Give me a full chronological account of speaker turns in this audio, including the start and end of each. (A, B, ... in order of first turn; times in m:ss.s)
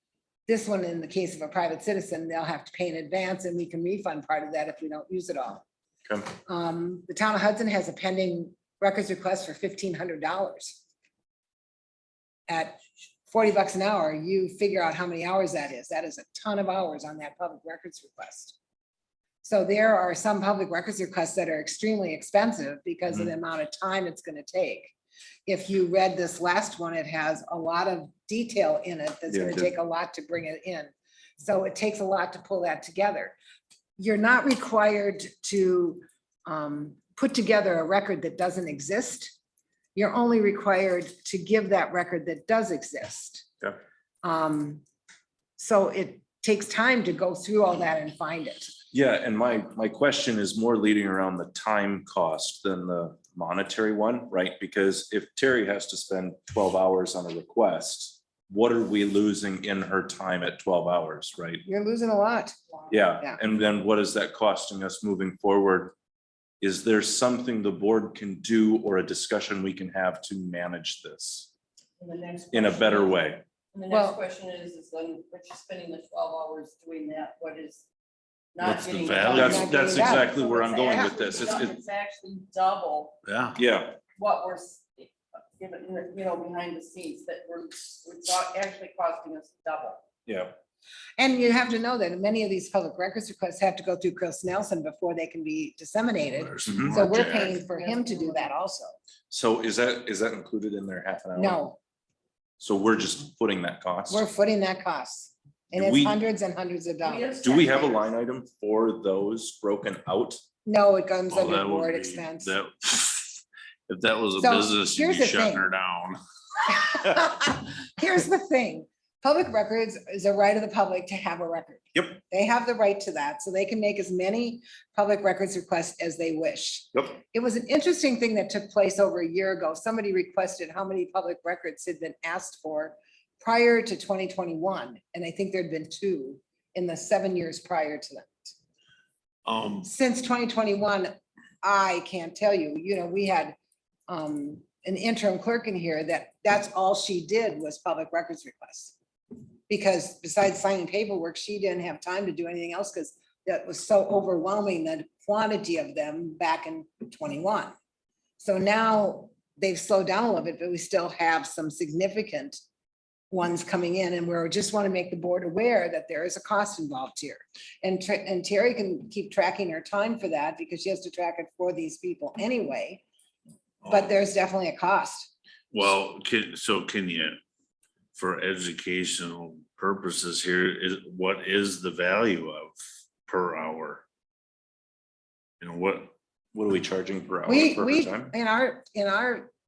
0:00.5-0:05.6 A
0:06.1-0:06.3 B
0:06.5-0:10.8 A
0:12.5-0:18.6 A
0:19.4-0:24.9 A
0:25.4-0:33.4 A
0:29.3-0:29.7 B
0:34.0-0:39.3 A
0:39.9-0:43.5 A
0:44.2-0:44.8 A
0:45.6-0:48.7 A
0:48.9-1:01.6 B
1:01.6-1:02.6 A
1:02.9-1:05.9 B
1:06.6-1:11.5 B
1:12.0-1:17.9 C
1:12.5-1:13.4 B
1:13.9-1:14.2 A
1:18.5-1:23.2 C
1:18.6-1:20.1 D
1:19.3-1:21.8 B
1:19.3-1:20.3 A
1:23.2-1:23.6 D
1:23.6-1:24.0 B
1:24.2-1:30.0 C
1:30.2-1:30.6 B
1:31.2-1:38.9 A
1:36.4-1:37.5 D
1:36.6-1:37.0 B
1:37.1-1:38.5 C
1:39.3-1:41.6 B
1:41.4-1:41.8 A
1:42.6-1:44.2 B
1:44.1-1:47.8 A
1:45.7-1:46.2 B
1:47.0-1:48.0 C
1:47.4-1:50.4 B
1:50.6-1:52.5 A
1:51.3-1:56.2 D
1:54.4-1:55.7 A
1:56.7-2:18.5 A
2:19.4-2:19.9 D
2:19.8-2:23.6 A
2:24.1-2:29.0 A
2:29.7-2:37.7 A
2:38.4-2:42.6 A
2:43.3-2:53.0 A
2:53.8-2:54.1 D
2:53.9-2:55.3 A
2:55.7-2:57.4 D
2:58.1-3:04.0 D
3:05.6-3:06.1 D
3:06.5-3:08.3 B
3:07.5-3:09.5 A